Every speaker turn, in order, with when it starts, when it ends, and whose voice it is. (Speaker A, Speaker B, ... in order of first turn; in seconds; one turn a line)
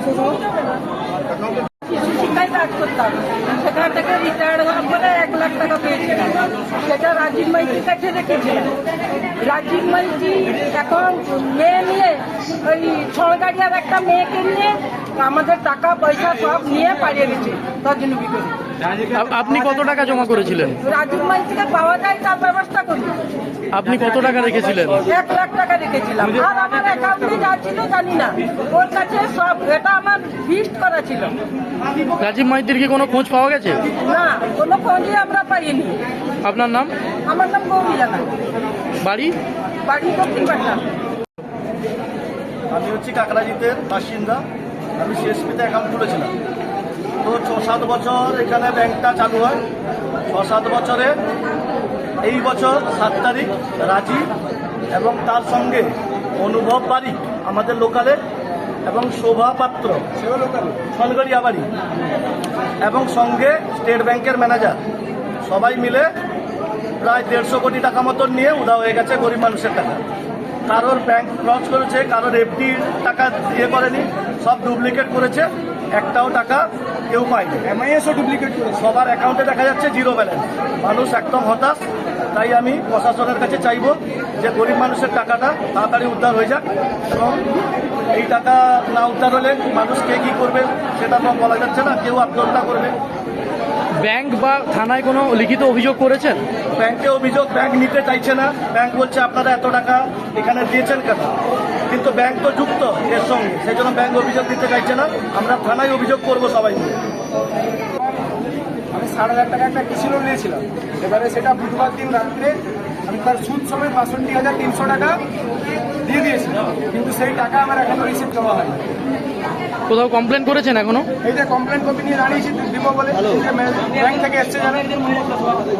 Speaker A: 1.8-8.7
Speaker A: 9.3-18.5
Speaker B: 19.0-20.8
Speaker A: 20.8-23.2
Speaker B: 23.7-25.0
Speaker A: 25.1-31.3
Speaker B: 32.0-33.8
Speaker A: 33.9-36.0
Speaker B: 36.4-36.9
Speaker A: 37.2-38.3
Speaker B: 39.0-39.3
Speaker A: 39.8-40.8
Speaker C: 42.7-44.4
Speaker C: 45.0-46.3
Speaker C: 47.2-49.6
Speaker C: 50.3-51.2
Speaker C: 52.2-54.3
Speaker C: 54.9-58.2
Speaker C: 58.9-60.1
Speaker D: 60.2-60.9
Speaker C: 60.9-61.7
Speaker C: 62.8-64.8
Speaker C: 65.4-66.1
Speaker C: 67.0-70.0
Speaker C: 70.7-77.6
Speaker D: 77.6-78.9
Speaker C: 78.8-87.5
Speaker C: 88.1-93.0
Speaker B: 94.0-96.4
Speaker C: 96.8-101.3
Speaker C: 101.9-107.0
Speaker D: 108.9-115.2
Speaker D: 116.1-118.8
Speaker B: 119.9-121.1
Speaker D: 121.2-125.1